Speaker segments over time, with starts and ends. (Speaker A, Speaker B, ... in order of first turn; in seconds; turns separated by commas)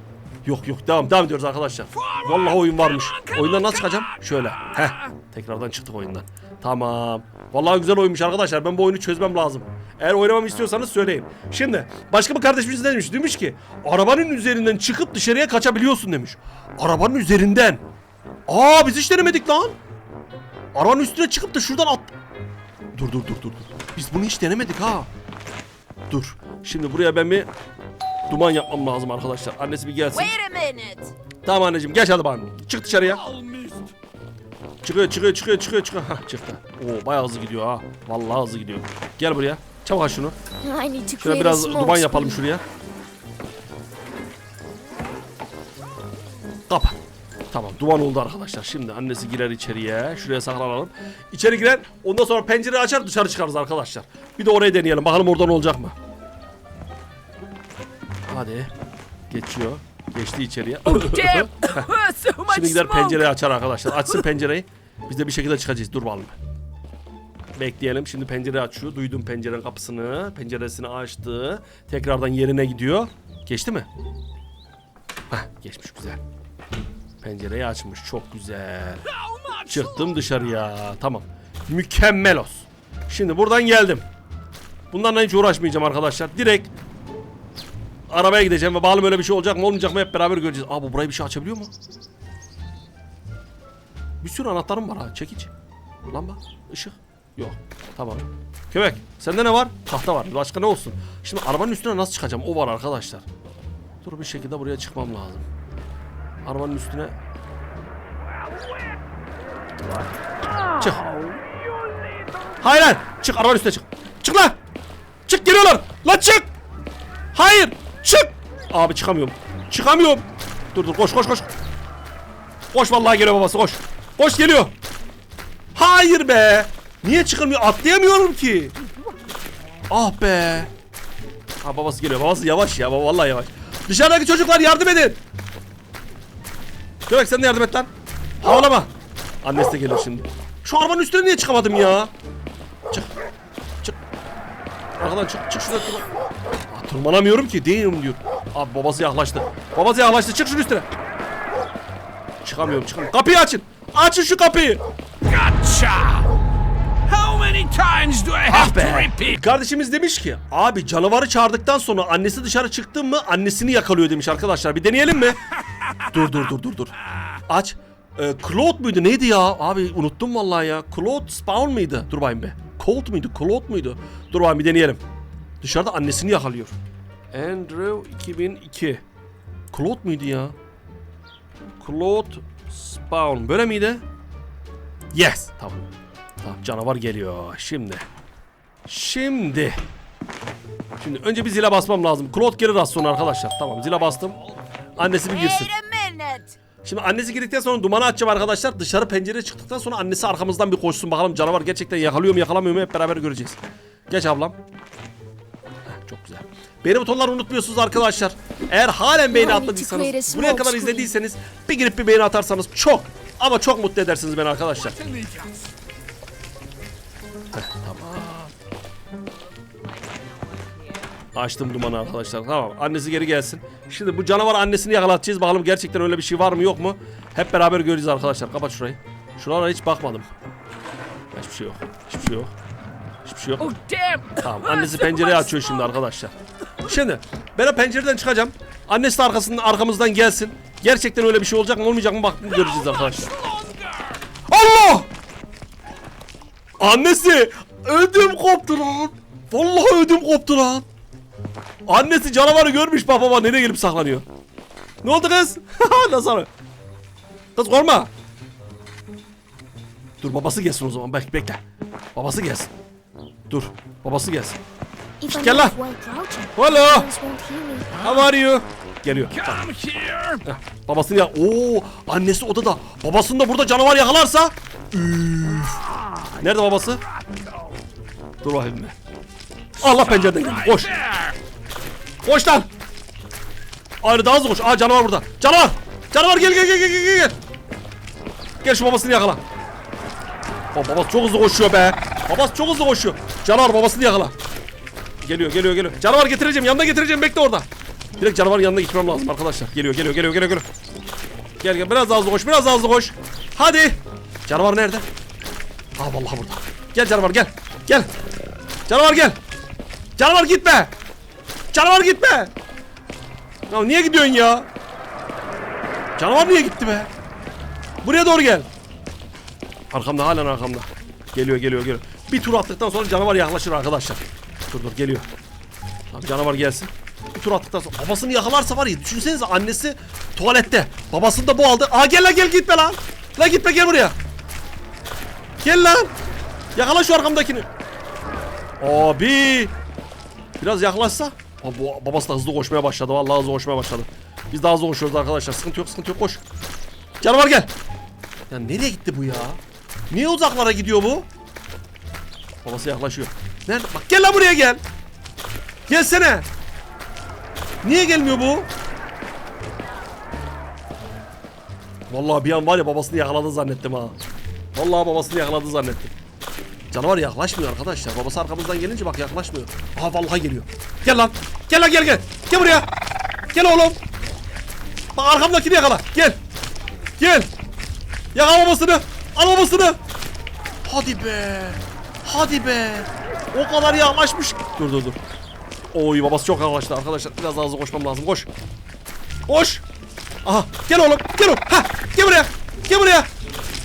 Speaker A: 0.5-17.8, Speaker B: 2.0-5.1, Speaker A: 18.5-19.8, Speaker A: 20.7-22.1, Speaker A: 22.9-25.1, Speaker A: 26.1-27.5, Speaker A: 28.3-30.3, Speaker C: 30.1-31.1, Speaker A: 31.4-33.2, Speaker B: 33.0-33.9, Speaker A: 34.8-40.4, Speaker C: 40.6-42.4, Speaker A: 41.2-42.6, Speaker A: 46.7-47.0, Speaker A: 47.5-56.0, Speaker A: 58.3-58.7, Speaker A: 59.3-61.9, Speaker C: 60.9-63.3, Speaker A: 62.5-66.4, Speaker A: 67.6-73.9, Speaker A: 75.3-76.2, Speaker A: 77.2-79.0, Speaker B: 79.1-80.2, Speaker A: 79.7-84.0, Speaker A: 84.9-86.7, Speaker A: 88.1-91.7, Speaker A: 94.2-95.5, Speaker A: 96.1-103.2, Speaker A: 104.0-105.4, Speaker A: 106.4-107.1, Speaker B: 108.3-109.0, Speaker B: 110.4-112.6, Speaker A: 110.8-111.0, Speaker A: 112.6-114.6, Speaker A: 115.3-116.5, Speaker A: 117.3-121.5, Speaker A: 122.7-124.7, Speaker A: 125.8-128.7, Speaker A: 129.9-130.7, Speaker A: 131.6-135.2, Speaker A: 137.1-137.9, Speaker A: 138.4-138.9, Speaker A: 139.4-142.1, Speaker A: 145.0-146.1, Speaker A: 146.7-150.9, Speaker A: 152.4-154.8, Speaker B: 155.2-156.3, Speaker B: 157.1-159.4, Speaker A: 158.5-165.4, Speaker A: 166.1-166.9, Speaker A: 167.5-175.0, Speaker A: 175.6-176.8, Speaker A: 177.3-179.0, Speaker A: 179.7-180.5, Speaker A: 181.8-184.0, Speaker A: 185.1-185.8, Speaker A: 186.4-188.1, Speaker A: 188.9-189.8, Speaker A: 191.0-194.4, Speaker A: 194.9-195.7, Speaker C: 195.3-196.6, Speaker A: 196.8-204.6, Speaker A: 205.9-215.0, Speaker C: 209.3-211.1, Speaker B: 214.8-215.7, Speaker A: 217.5-218.5, Speaker C: 219.3-221.1, Speaker A: 221.3-230.3, Speaker A: 231.3-232.5, Speaker A: 233.2-233.7, Speaker C: 233.6-235.8, Speaker A: 234.4-243.3, Speaker B: 242.4-244.2, Speaker A: 244.5-245.1, Speaker A: 246.8-250.9, Speaker A: 251.9-254.2, Speaker A: 255.0-256.5, Speaker A: 257.6-258.1, Speaker A: 260.2-261.6, Speaker A: 262.1-262.7, Speaker A: 263.5-264.6, Speaker C: 265.2-267.9, Speaker A: 265.3-265.8, Speaker A: 266.6-267.1, Speaker B: 267.9-268.2, Speaker A: 268.0-269.6, Speaker B: 269.3-270.4, Speaker A: 270.4-275.9, Speaker B: 275.9-276.4, Speaker A: 276.4-277.0, Speaker B: 277.1-277.7, Speaker A: 278.4-278.9, Speaker A: 279.8-280.9, Speaker B: 279.8-281.4, Speaker A: 282.2-282.7, Speaker A: 284.0-287.4, Speaker A: 288.6-289.4, Speaker A: 290.7-294.4, Speaker A: 295.2-297.7, Speaker A: 298.2-300.6, Speaker A: 301.6-305.1, Speaker A: 306.0-308.1, Speaker A: 308.9-309.4, Speaker A: 310.2-310.9, Speaker A: 311.7-312.5, Speaker A: 313.7-314.7, Speaker A: 316.2-317.1, Speaker A: 318.0-318.7, Speaker A: 319.9-325.3, Speaker A: 326.1-334.1, Speaker A: 335.6-336.1, Speaker A: 336.8-337.7, Speaker A: 338.8-339.7, Speaker A: 340.6-346.4, Speaker A: 347.2-347.7, Speaker A: 348.5-351.3, Speaker A: 352.6-354.8, Speaker A: 355.9-356.4, Speaker A: 357.8-358.7, Speaker A: 362.1-364.1, Speaker A: 364.8-366.1, Speaker A: 366.9-372.9, Speaker A: 373.5-374.0, Speaker A: 375.1-376.4, Speaker A: 377.2-377.5, Speaker A: 378.4-380.0, Speaker A: 380.8-385.2, Speaker A: 385.9-388.5, Speaker A: 389.5-389.8, Speaker A: 390.4-393.3